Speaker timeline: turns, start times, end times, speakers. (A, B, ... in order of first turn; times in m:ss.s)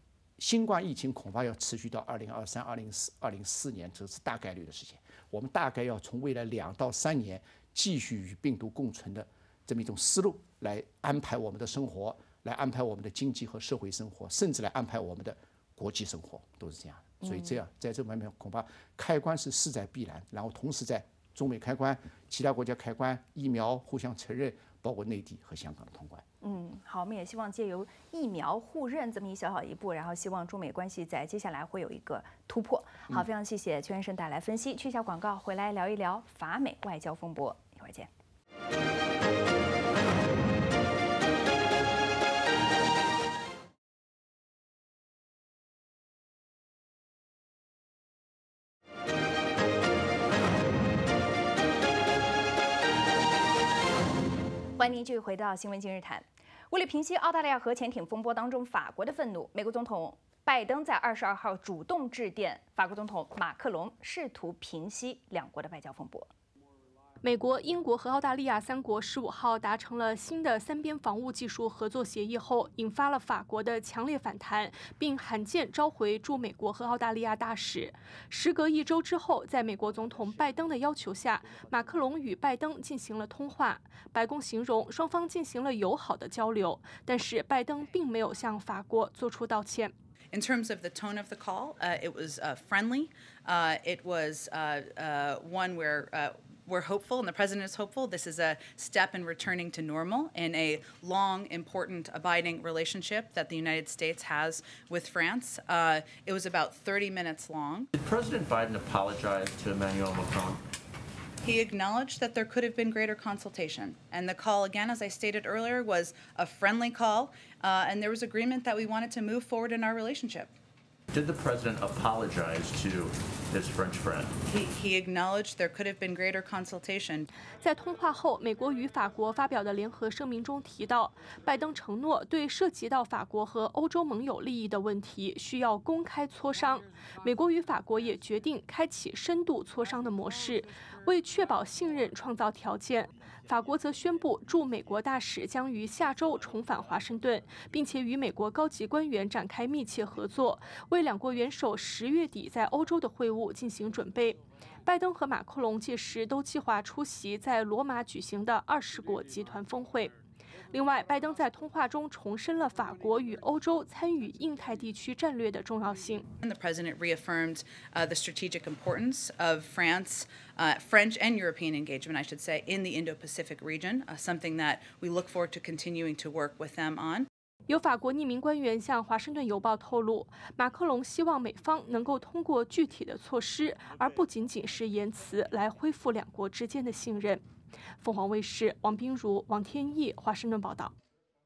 0:00.4-0:26.2 A
0:26.4-0:38.1 B
0:54.8-1:06.3 B
1:07.2-1:29.9 C
1:30.3-1:47.9 D
1:47.9-1:50.6 E
1:51.4-2:00.5 D
2:01.1-2:04.4 E
2:04.5-2:07.2 D
2:07.6-2:40.1 C
2:40.7-2:46.2 C
2:46.4-2:57.3 D
2:57.7-3:07.4 C
3:08.0-3:10.9 C